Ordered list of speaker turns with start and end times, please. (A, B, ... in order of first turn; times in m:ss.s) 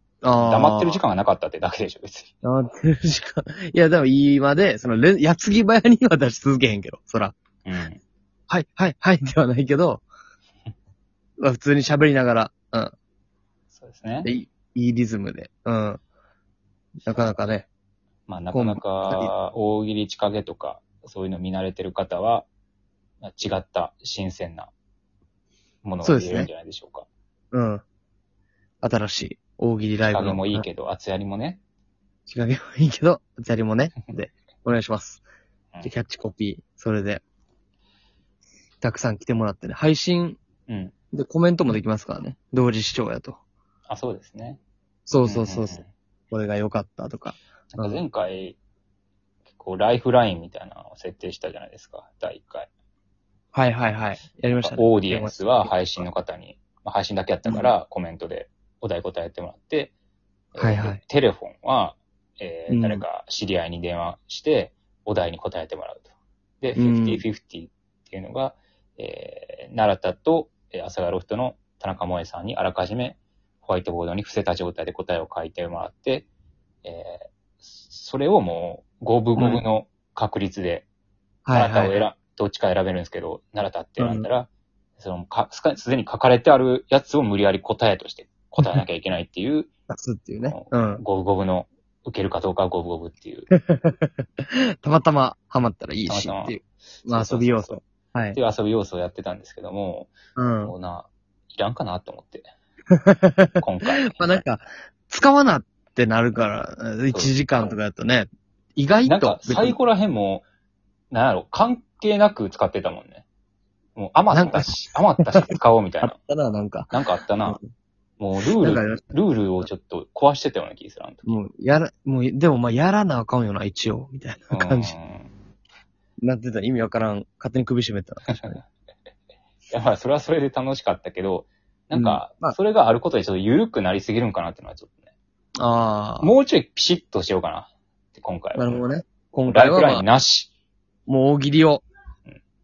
0:00.2-0:01.0 A
0:00.4-0:02.3 B
0:02.4-0:07.3 A
0:07.6-0:08.0 B
0:08.5-0:10.0 A
0:11.4-0:12.9 A
0:13.7-0:14.3 B
0:14.2-0:16.0 A
0:17.1-0:17.7 A
0:18.3-0:22.5 B
0:18.5-0:19.3 A
0:23.2-0:24.7 B
0:25.8-0:27.1 B
0:26.0-0:26.5 A
0:27.5-0:27.8 A
0:28.8-0:30.6 A
0:30.1-0:31.6 B
0:32.3-0:35.2 A
0:35.8-0:37.2 A
0:38.8-0:40.4 A
0:40.7-0:40.9 B
0:41.1-0:43.4 A
0:43.9-0:44.6 B
0:45.1-0:48.0 A
0:45.2-0:45.9 B
0:47.7-0:48.6 B
0:49.5-0:52.7 B
0:53.5-0:56.0 A
0:54.5-0:59.9 B
1:00.5-1:16.3 B
1:00.6-1:01.0 A
1:02.7-1:03.0 A
1:06.8-1:07.2 A
1:16.8-1:20.9 B
1:19.4-1:19.6 A
1:21.4-1:22.0 A
1:21.5-1:29.7 B
1:24.0-1:24.3 A
1:29.9-1:31.0 A
1:30.5-1:33.5 B
1:33.5-1:38.4 A
1:36.1-1:37.8 B
1:38.3-1:42.4 B
1:40.4-1:40.7 A
1:42.9-1:49.8 A
1:43.6-1:44.4 B
1:47.1-1:47.4 B
1:49.0-1:50.4 B
1:51.1-1:53.2 B
1:54.0-1:56.2 B
1:54.3-1:56.9 A
1:56.9-1:57.6 B
1:58.2-2:01.4 B
1:58.4-1:59.1 A
2:01.3-2:04.9 A
2:04.5-2:05.3 B
2:06.2-2:08.6 A
2:08.3-2:08.6 B
2:09.7-2:15.0 B
2:11.9-2:12.6 A
2:15.6-2:16.3 A
2:16.2-2:18.8 B
2:18.5-2:20.0 A
2:19.5-2:20.5 B
2:21.1-2:21.8 A